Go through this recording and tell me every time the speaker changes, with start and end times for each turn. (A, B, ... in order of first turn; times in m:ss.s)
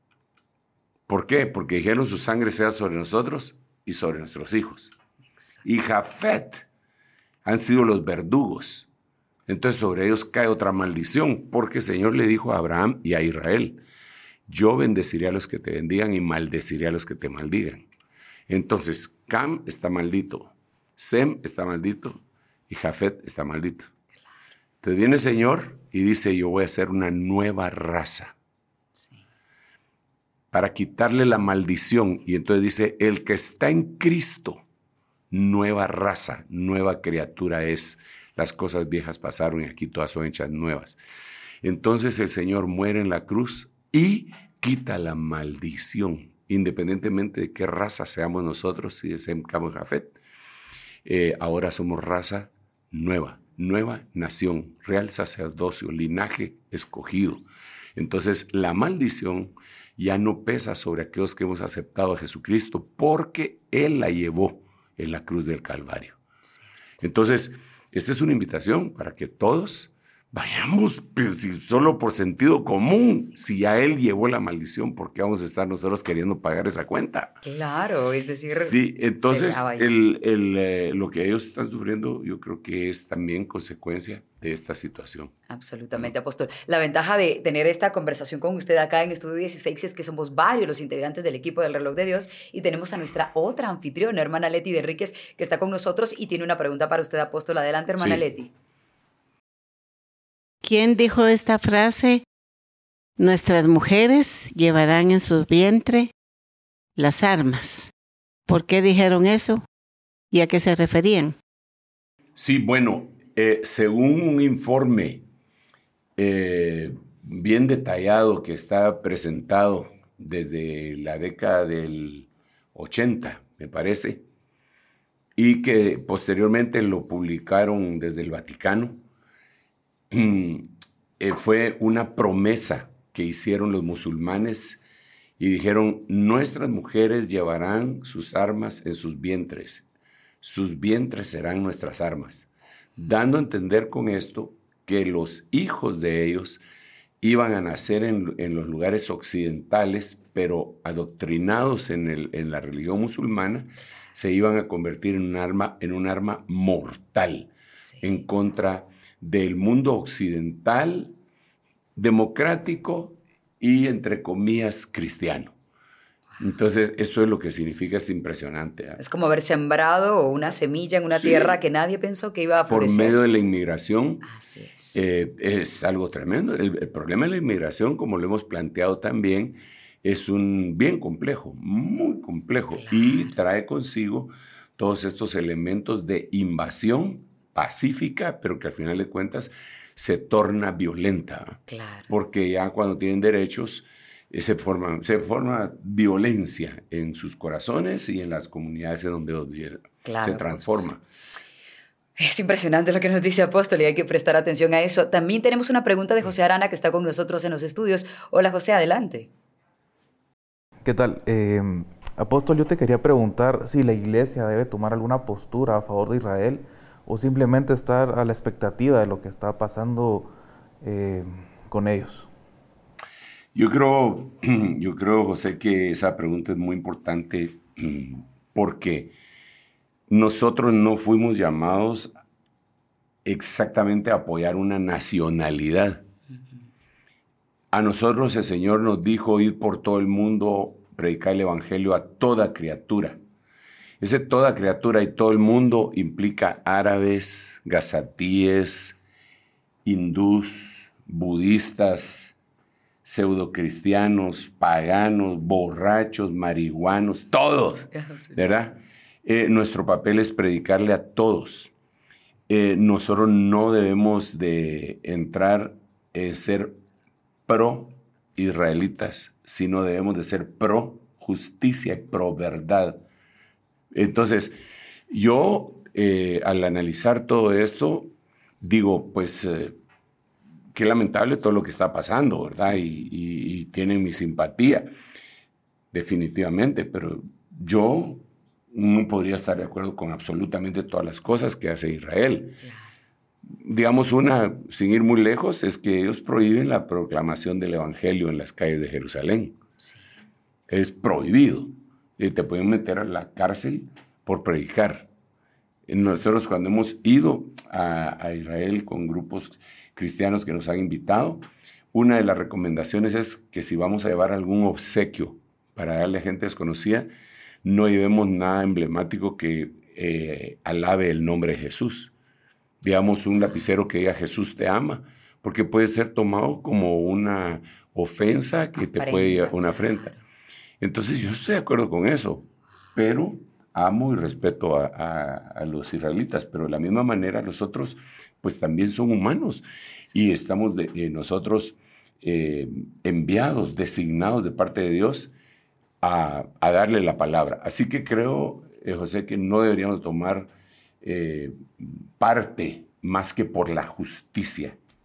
0:01.1-0:05.0 A
0:05.6-0:06.7 A
0:07.4-0:08.9 A
0:09.5-0:13.8 A
0:14.5-0:17.9 A
0:18.5-0:23.9 A
0:24.8-0:28.3 A
0:30.5-0:34.6 A
0:35.3-0:41.0 A
0:41.6-0:50.2 A
0:51.0-1:06.2 A
1:07.0-1:17.4 A
1:17.4-1:19.9 B
1:18.5-1:25.3 A
1:25.5-1:38.5 B
1:40.6-1:42.2 C
1:43.2-1:46.1 C
1:47.0-1:47.9 C
1:48.5-1:49.6 C
1:50.3-1:51.4 C
1:52.4-1:55.2 A
1:56.2-2:04.2 A
2:05.4-2:09.0 A
2:10.1-2:14.8 A
2:15.4-2:19.8 A
2:20.4-2:26.6 A
2:27.2-2:41.2 A
2:42.0-2:45.6 A
2:46.4-2:49.0 A
2:49.0-2:53.2 B
2:51.1-2:51.6 A
2:52.7-2:54.2 A
2:54.2-2:55.0 B
2:54.9-3:21.0 A
3:02.7-3:03.3 B
3:11.7-3:12.1 B
3:20.0-3:20.8 B
3:22.2-3:29.3 B
3:30.8-3:42.3 D
3:43.5-3:49.1 A
3:50.1-3:52.1 A
3:53.2-3:56.0 A
3:57.7-4:03.2 A
4:04.0-4:09.0 A
4:09.8-4:12.3 A
4:13.0-4:21.7 A
4:17.9-4:18.4 B
4:22.5-4:26.8 A
4:27.5-4:33.0 A
4:33.9-4:34.6 A
4:35.1-4:39.8 A
4:40.7-4:44.9 A
4:45.9-4:52.6 A
4:53.5-4:59.6 A
5:00.7-5:05.1 A
5:05.9-5:17.1 A
5:17.6-5:22.1 A
5:22.8-5:30.1 A
5:28.8-5:30.2 B
5:30.8-5:45.3 A
5:46.0-5:50.5 A
5:51.0-5:54.8 A